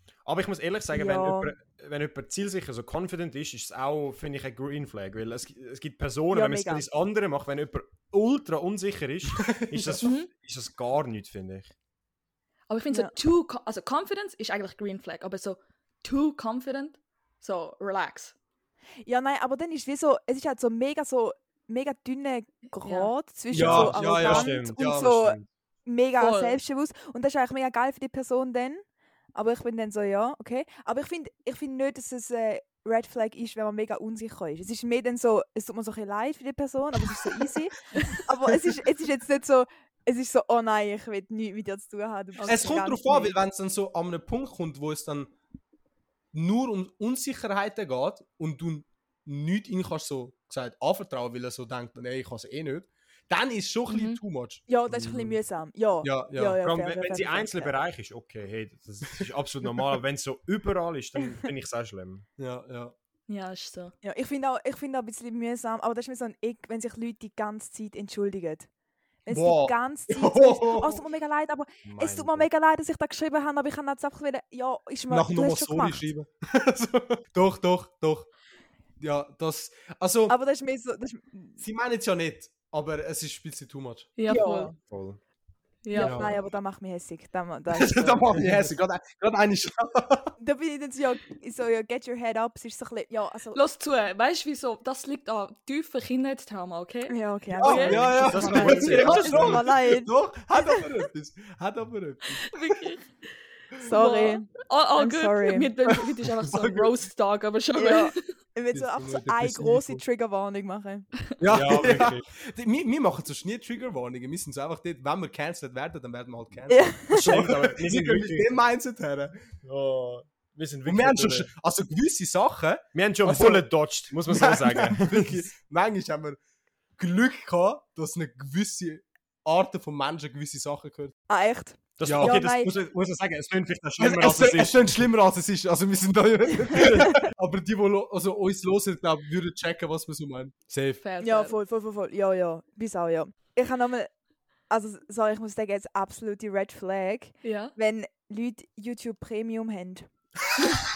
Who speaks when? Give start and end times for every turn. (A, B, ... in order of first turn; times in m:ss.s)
0:00.2-0:11.7 A
0:00.9-0:01.5 B
0:06.3-0:06.8 B
0:09.4-0:10.0 C
0:10.0-0:10.3 D
0:12.7-0:18.3 D
0:19.0-0:28.8 B
0:22.8-0:23.1 D
0:23.5-0:25.1 C
0:23.5-0:25.5 A
0:26.2-0:26.6 D
0:29.3-0:43.3 B
0:42.4-0:42.8 D
0:42.5-0:45.3 C
0:46.3-0:54.6 C
0:53.9-0:54.2 D
0:54.7-0:57.7 B
0:54.9-0:55.3 A
0:56.0-0:56.6 C
0:56.6-1:02.2 A
1:02.4-1:02.9 C
1:03.3-1:03.9 D
1:04.0-1:08.7 B
1:09.2-1:16.0 B
1:09.3-1:11.0 C
1:11.8-1:12.5 A
1:15.1-1:18.3 C
1:19.0-1:20.4 C
1:20.3-1:21.6 B
1:21.6-1:24.1 C
1:24.2-1:24.7 D
1:24.3-1:24.8 B
1:24.9-1:25.2 A
1:25.8-1:26.3 D
1:25.9-1:28.3 B
1:25.9-1:26.4 C
1:27.7-1:30.3 C
1:30.4-1:33.6 B
1:33.5-1:39.2 D
1:37.1-1:40.1 B
1:37.5-1:42.8 C
1:38.0-1:39.7 A
1:42.4-1:43.1 D
1:43.8-1:45.7 B
1:43.8-1:48.2 D
1:46.3-1:47.0 C
1:47.8-1:51.1 B
1:48.7-1:50.0 C
1:51.4-1:59.3 C
1:51.5-1:52.3 A
1:56.7-1:57.3 B
1:57.1-1:58.6 A
1:59.6-2:01.5 A
2:00.8-2:03.7 C
2:02.9-2:05.5 A
2:04.2-2:06.4 C
2:07.0-2:11.1 C
2:11.3-2:12.7 B
2:12.0-2:15.0 A
2:12.0-2:12.4 C
2:14.0-2:21.0 C
2:21.0-2:21.5 D
2:21.2-2:24.1 B
2:24.7-2:30.1 B
2:27.4-2:27.7 D